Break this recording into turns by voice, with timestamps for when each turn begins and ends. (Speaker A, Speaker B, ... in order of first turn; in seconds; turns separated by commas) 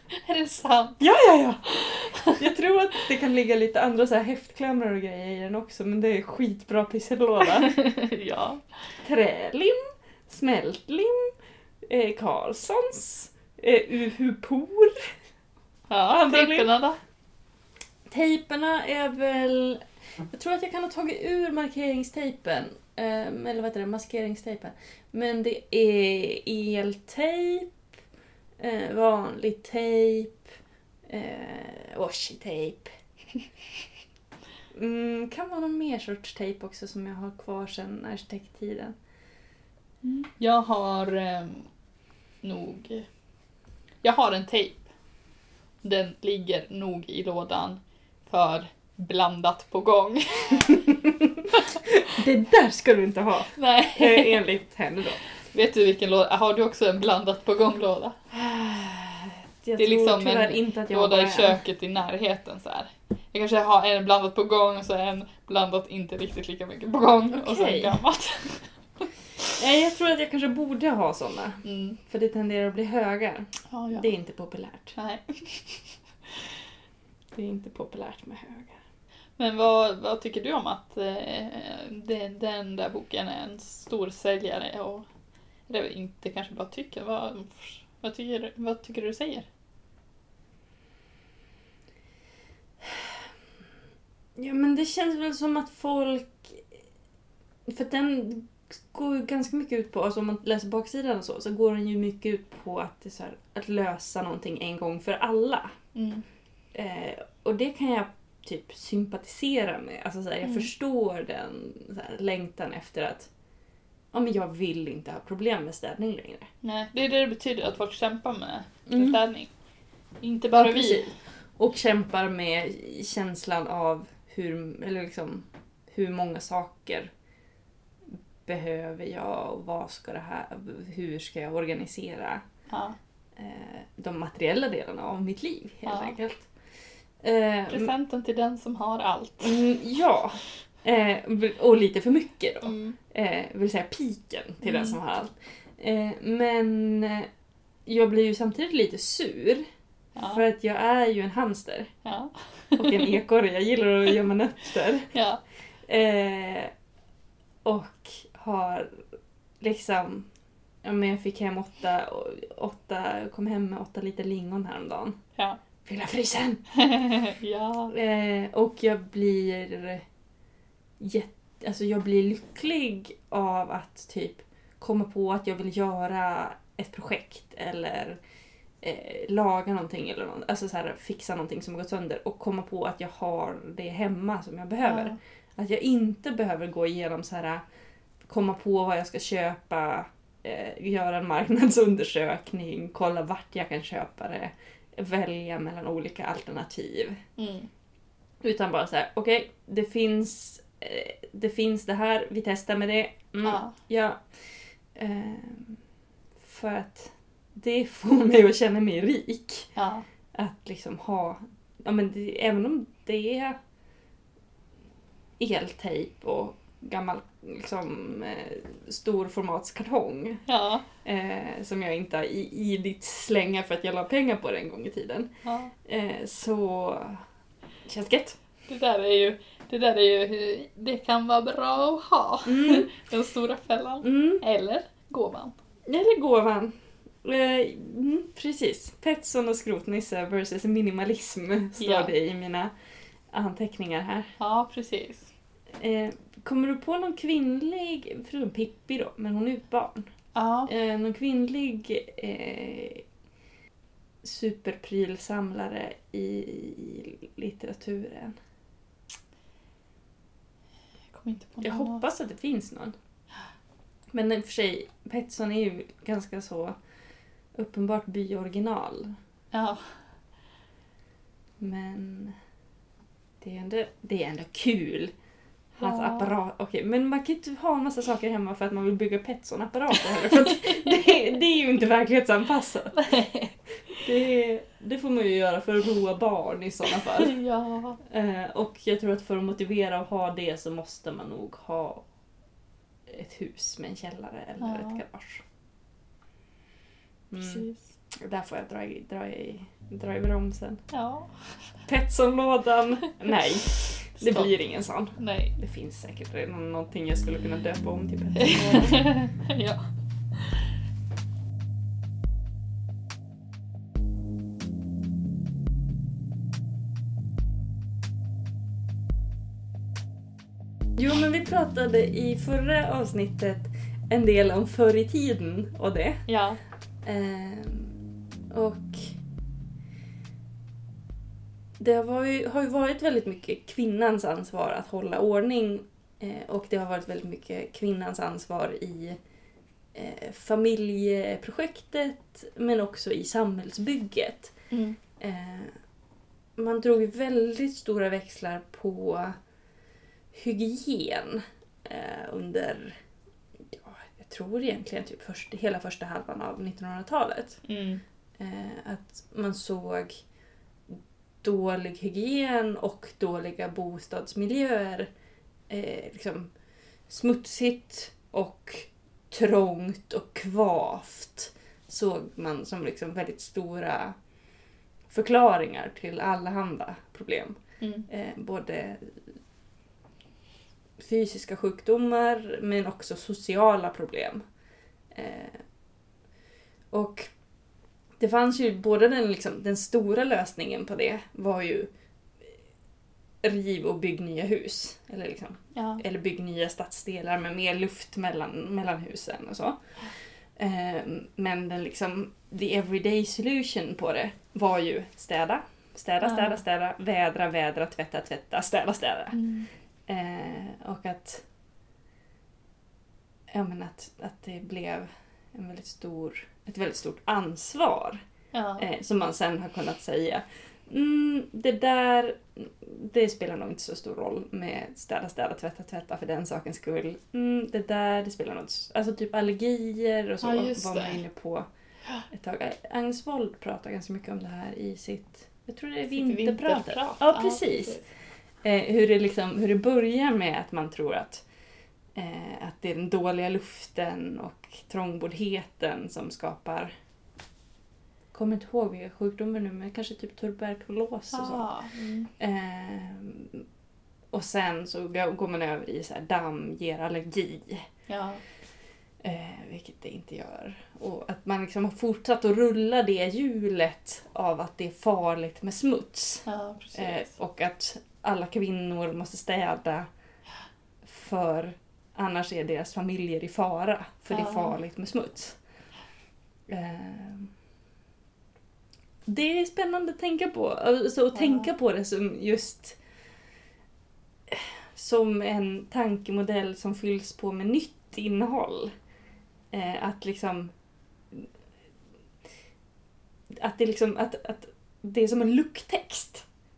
Speaker A: 0.1-1.0, Speaker B: 1.0-7.8, Speaker A: 1.7-2.3, Speaker A: 7.5-8.6, Speaker B: 9.0-11.3, Speaker B: 11.8-15.1, Speaker A: 15.9-17.0, Speaker B: 16.1-16.7, Speaker B: 18.1-27.7, Speaker B: 28.6-30.4, Speaker B: 31.1-32.9, Speaker B: 34.7-39.0, Speaker A: 40.0-41.7, Speaker A: 42.4-43.1, Speaker A: 44.0-44.9, Speaker A: 45.8-50.8, Speaker B: 50.7-55.2, Speaker A: 51.5-51.8, Speaker A: 53.5-54.4, Speaker A: 55.4-58.2, Speaker B: 58.3-61.6, Speaker A: 59.8-69.0, Speaker B: 67.3-68.0, Speaker B: 69.5-75.0, Speaker A: 71.6-72.0, Speaker A: 73.7-74.1, Speaker A: 75.0-76.4, Speaker B: 77.3-78.8, Speaker A: 79.4-85.0, Speaker A: 85.7-89.5, Speaker B: 92.8-93.1, Speaker B: 94.4-96.6, Speaker B: 97.7-105.7, Speaker A: 105.9-106.2, Speaker B: 106.7-113.3, Speaker B: 114.1-116.5, Speaker A: 116.6-119.5, Speaker B: 118.9-119.2, Speaker A: 120.2-121.1, Speaker B: 120.5-127.1, Speaker B: 128.1-132.4, Speaker A: 132.7-133.0, Speaker B: 133.3-136.5, Speaker A: 135.8-136.2, Speaker B: 137.2-137.9, Speaker A: 137.7-139.6, Speaker B: 139.4-147.3, Speaker A: 142.6-143.0, Speaker A: 144.6-145.0, Speaker B: 147.8-149.6, Speaker A: 150.2-150.4, Speaker B: 150.2-151.9, Speaker A: 152.0-153.1, Speaker B: 152.8-155.1, Speaker A: 155.1-155.4, Speaker B: 155.9-156.7, Speaker B: 157.6-159.0, Speaker B: 159.6-160.3, Speaker B: 160.8-165.2, Speaker B: 165.8-166.6, Speaker A: 166.8-167.9, Speaker B: 167.9-170.0, Speaker B: 171.0-178.2, Speaker B: 178.8-187.6, Speaker A: 184.8-185.2, Speaker B: 188.2-197.2, Speaker A: 197.4-197.7, Speaker B: 198.4-204.2, Speaker A: 203.4-203.7, Speaker B: 204.9-205.8, Speaker B: 206.4-209.7, Speaker A: 209.8-210.0, Speaker B: 210.3-213.6, Speaker B: 215.4-220.4, Speaker A: 220.5-220.8, Speaker B: 221.0-225.3, Speaker A: 225.4-225.7, Speaker B: 225.8-227.2, Speaker B: 227.8-228.4, Speaker A: 228.7-235.5, Speaker B: 232.4-232.9, Speaker B: 234.0-234.4, Speaker B: 235.9-242.7, Speaker A: 241.8-242.1, Speaker B: 243.3-244.3, Speaker A: 244.4-245.3, Speaker B: 245.8-250.1, Speaker A: 250.3-250.7, Speaker B: 250.7-253.0, Speaker B: 254.2-258.4, Speaker A: 261.1-262.0, Speaker B: 261.6-262.9, Speaker B: 264.1-266.7, Speaker B: 267.5-269.1, Speaker A: 269.5-269.9, Speaker B: 271.6-272.4, Speaker B: 273.4-275.1, Speaker B: 275.8-283.0, Speaker A: 275.8-276.3, Speaker A: 280.1-281.0, Speaker A: 282.9-283.5, Speaker B: 283.9-287.4, Speaker A: 287.0-288.0, Speaker B: 288.0-292.0, Speaker B: 293.1-295.4, Speaker A: 294.6-295.0, Speaker B: 297.3-300.8, Speaker A: 297.4-297.8, Speaker A: 300.9-301.4, Speaker B: 301.9-309.1, Speaker A: 304.2-304.5, Speaker A: 305.2-305.5, Speaker A: 308.4-309.8, Speaker A: 310.3-310.6, Speaker B: 321.0-326.2, Speaker A: 326.3-326.6, Speaker B: 327.0-328.0, Speaker B: 328.5-329.1, Speaker B: 331.8-339.2, Speaker B: 339.9-344.5, Speaker A: 344.7-345.0, Speaker B: 345.2-345.7, Speaker B: 346.6-349.4, Speaker B: 350.3-353.0, Speaker B: 353.7-357.6, Speaker A: 357.6-358.0, Speaker B: 358.4-360.2, Speaker B: 360.9-365.1, Speaker B: 365.7-366.5, Speaker B: 367.1-374.1, Speaker B: 375.1-379.2, Speaker A: 377.8-378.1, Speaker B: 381.0-384.4, Speaker B: 385.1-385.6, Speaker B: 386.9-387.3, Speaker B: 388.2-391.9, Speaker B: 393.4-399.8, Speaker A: 395.7-396.0, Speaker B: 400.6-409.4, Speaker A: 406.2-406.6, Speaker A: 409.3-409.7, Speaker B: 410.1-411.4, Speaker B: 413.5-418.2, Speaker A: 418.5-418.9, Speaker B: 418.8-431.7, Speaker A: 430.4-431.2, Speaker B: 432.3-438.0, Speaker A: 436.1-438.0, Speaker B: 438.6-441.4, Speaker B: 442.1-446.9, Speaker B: 448.3-451.7, Speaker A: 451.3-452.3, Speaker B: 452.4-453.6, Speaker B: 454.3-457.9, Speaker A: 458.1-458.4, Speaker B: 459.2-470.1, Speaker A: 466.4-467.3, Speaker B: 471.0-475.6, Speaker A: 474.3-474.8, Speaker B: 476.7-477.5, Speaker B: 479.2-483.0, Speaker A: 481.3-481.7, Speaker B: 484.5-488.9, Speaker B: 489.7-490.7, Speaker B: 493.6-496.4